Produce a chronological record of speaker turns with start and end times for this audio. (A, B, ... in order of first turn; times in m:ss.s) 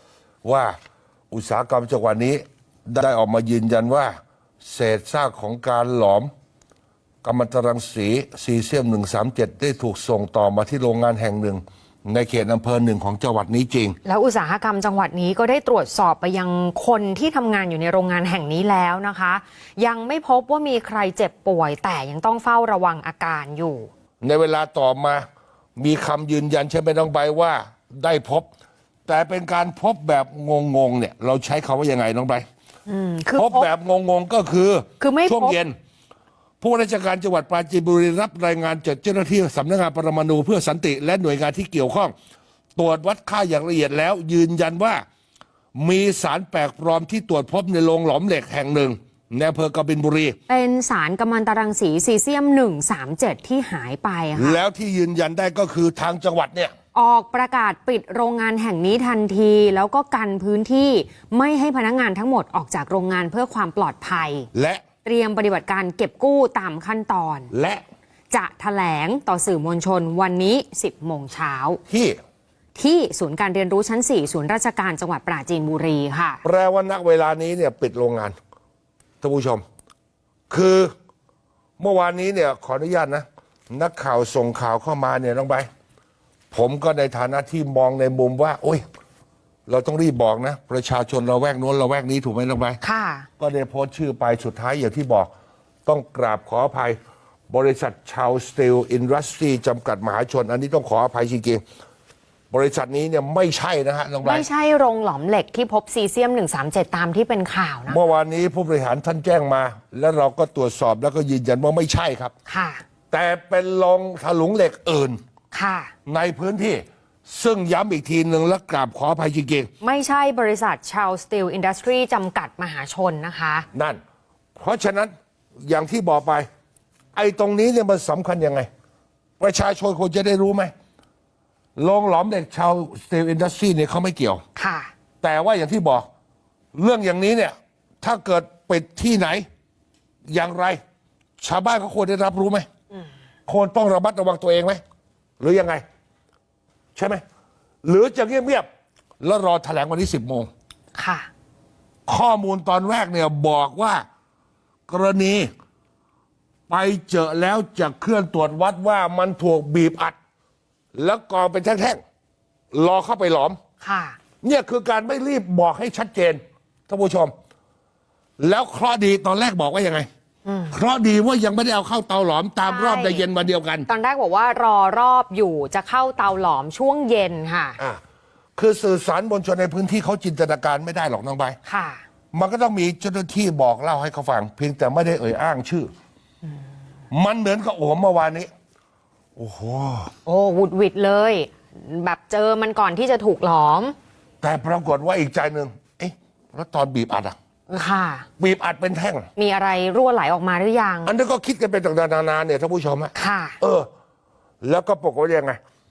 0:00.4-0:00.8 A
0:01.3-0:06.3 A
0:07.2-0:14.0 A
0:14.0-0:23.9 B
0:24.2-0:25.2 A
0:25.8-0:28.5 A
0:29.1-0:32.4 A
0:32.9-0:33.7 B
0:33.4-0:35.8 A
0:35.0-0:35.6 B
0:36.6-0:42.1 A
0:42.8-0:45.0 A
0:45.8-0:50.4 A
0:50.5-0:54.6 B
0:54.4-0:56.7 A
0:57.0-1:04.5 B
1:04.5-1:04.8 A
1:05.0-1:07.5 B
1:07.5-1:07.8 A
1:08.3-1:11.8 B
1:11.9-1:12.2 A
1:12.8-1:16.4 B
1:16.4-1:18.4 A
1:19.2-1:19.6 A
1:20.5-1:20.9 A
1:21.8-1:25.7 A
1:26.5-1:28.8 A
1:29.7-1:32.8 A
1:32.8-1:33.3 B
1:33.4-1:35.3 A
1:35.9-1:37.0 A
1:37.5-1:41.6 A
1:42.5-1:44.5 A
1:44.2-1:48.0 B
1:47.9-1:52.3 A
1:52.5-1:52.8 B
1:53.1-1:55.2 A
1:55.5-1:55.9 B
1:56.1-1:59.7 A
1:59.8-2:03.7 B
2:03.7-2:04.0 A
2:04.6-2:06.5 A
2:07.1-2:08.7 A
2:09.4-2:10.7 A
2:11.8-2:14.4 A
2:14.6-2:14.9 B
2:15.2-2:16.1 A
2:16.8-2:19.5 A
2:20.3-2:20.8 A
2:21.4-2:22.7 A
2:23.5-2:24.8 A
2:25.4-2:25.8 A
2:27.0-2:27.2 A
2:27.8-2:28.7 A
2:29.2-2:30.5 A
2:31.0-2:31.3 B
2:32.1-2:34.0 A
2:34.9-2:35.5 A
2:36.7-2:40.2 A
2:41.0-2:42.0 A
2:42.7-2:43.6 A
2:43.8-2:44.2 B
2:44.4-2:47.3 A
2:48.4-2:50.1 A
2:50.4-2:50.8 B
2:50.7-2:53.9 A
2:52.6-2:53.2 B
2:53.9-2:57.8 B
2:58.6-3:01.6 A
3:01.6-3:02.0 B
3:02.3-3:05.9 A
3:07.1-3:08.5 A
3:09.4-3:10.1 A
3:10.3-3:14.0 B
3:14.4-3:17.4 A
3:17.7-3:18.3 B
3:18.4-3:19.3 A
3:19.4-3:21.1 B
3:21.0-3:23.9 A
3:23.2-3:23.6 B
3:24.6-3:25.6 A